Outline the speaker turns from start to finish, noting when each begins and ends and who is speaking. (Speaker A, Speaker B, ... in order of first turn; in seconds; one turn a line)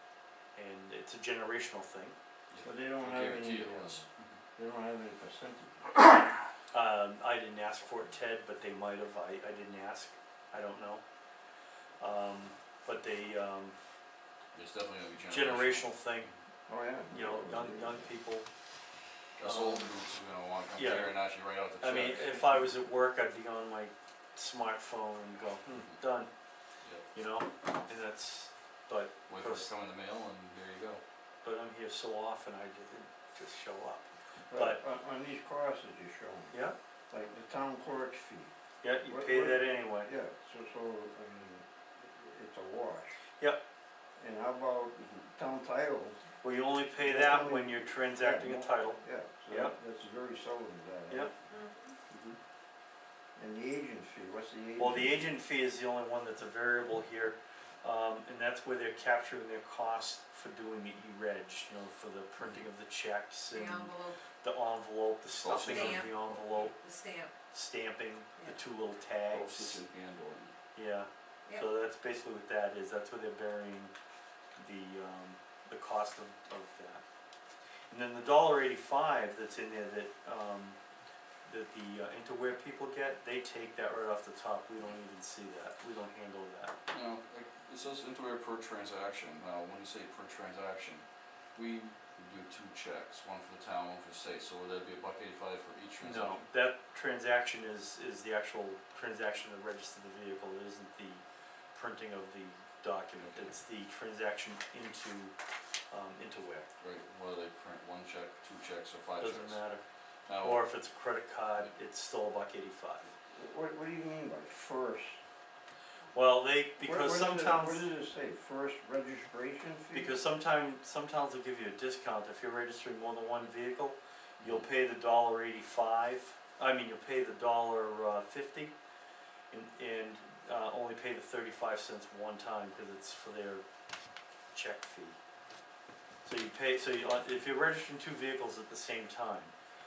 Speaker A: 0.5-2.1
Speaker B: 2.5-4.4
Speaker C: 2.6-4.0
Speaker C: 4.5-6.0
Speaker A: 6.7-11.0
Speaker A: 12.0-13.7
Speaker B: 14.5-16.3
Speaker A: 15.3-16.3
Speaker C: 16.7-18.1
Speaker A: 17.1-18.5
Speaker B: 19.4-22.6
Speaker A: 19.4-19.9
Speaker A: 20.7-21.2
Speaker A: 21.8-26.3
Speaker A: 27.1-29.7
Speaker B: 29.3-31.0
Speaker A: 31.4-34.8
Speaker C: 34.5-36.5
Speaker C: 37.1-38.5
Speaker A: 38.8-40.1
Speaker C: 39.0-43.2
Speaker C: 44.2-46.2
Speaker A: 46.4-49.7
Speaker C: 47.0-51.3
Speaker D: 51.5-51.9
Speaker B: 52.1-52.4
Speaker C: 53.4-55.3
Speaker A: 54.8-66.7
Speaker D: 63.5-64.2
Speaker B: 65.4-66.7
Speaker D: 65.6-66.1
Speaker D: 66.8-67.3
Speaker A: 67.5-69.8
Speaker B: 69.3-70.5
Speaker A: 70.7-73.9
Speaker A: 74.5-77.0
Speaker A: 77.9-80.8
Speaker A: 81.5-86.7
Speaker B: 86.9-96.5
Speaker A: 96.0-105.3
Speaker B: 103.2-103.5
Speaker A: 105.9-106.7
Speaker B: 106.8-109.6
Speaker A: 109.2-109.8
Speaker B: 110.2-110.7
Speaker A: 110.4-113.1
Speaker C: 113.3-115.2
Speaker A: 116.1-117.8
Speaker C: 116.8-120.1
Speaker A: 119.9-128.7
Speaker B: 124.4-124.6
Speaker A: 129.5-133.6
Speaker A: 134.5-135.2
Speaker A: 136.2-139.5